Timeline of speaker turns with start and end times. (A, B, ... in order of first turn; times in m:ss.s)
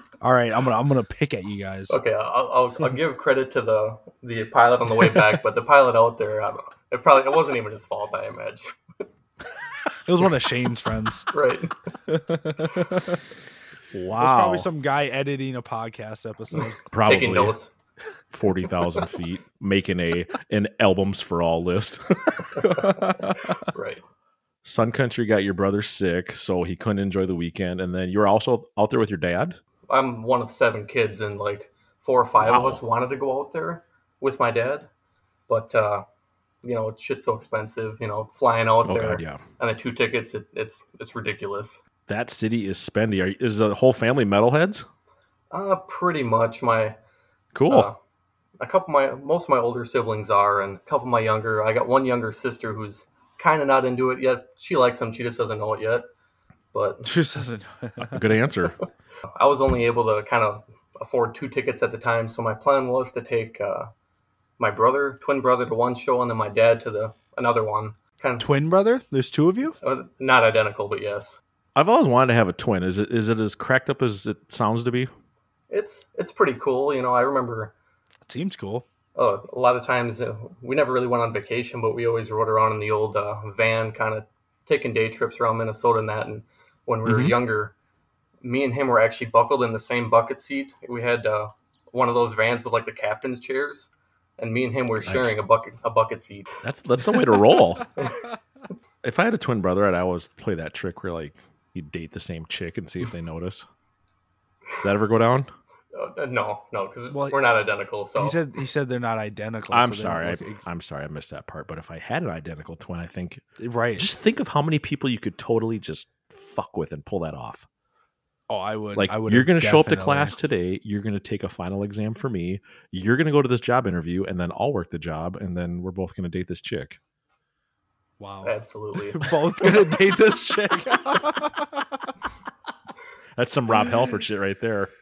0:00.2-0:02.0 A
0:01.9-0:08.7 B
0:10.1-0:11.3 A
0:11.3-0:11.7 B
0:12.1-0:13.2 A
0:13.9-0:14.7 C
0:14.2-0:16.8 A
0:16.9-0:17.6 C
0:17.0-0:17.7 B
0:18.3-0:22.5 C
0:22.6-0:24.0 B
0:22.6-0:23.4 A
0:24.6-0:29.6 C
0:29.9-0:34.9 B
0:32.4-0:32.8 C
0:35.5-0:36.0 B
0:36.6-0:41.8 B
0:38.8-0:39.4 C
0:42.1-0:44.9 C
0:45.5-0:47.0 B
0:47.5-0:47.9 C
0:47.7-0:48.0 B
0:48.6-0:56.1 B
0:56.7-0:57.1 B
0:57.1-0:58.2 A
0:58.1-0:58.8 C
0:59.4-1:03.9 B
1:04.6-1:08.5 B
1:08.4-1:09.8 A
1:09.8-1:11.4 B
1:11.8-1:15.1 C
1:15.7-1:17.7 B
1:18.3-1:18.8 A
1:19.2-1:27.7 B
1:27.0-1:27.4 C
1:28.4-1:33.9 B
1:34.4-1:36.5 B
1:35.0-1:35.4 C
1:36.6-1:37.9 C
1:39.0-1:43.7 C
1:44.8-1:45.5 C
1:45.9-1:48.4 B
1:47.1-1:47.4 A
1:48.2-1:50.6 A
1:49.7-1:53.4 C
1:53.6-1:54.1 A
1:54.0-1:57.7 C
1:58.5-2:00.4 A
1:59.0-2:07.0 C
2:08.2-2:11.8 A
2:08.4-2:09.3 B
2:13.4-2:14.9 C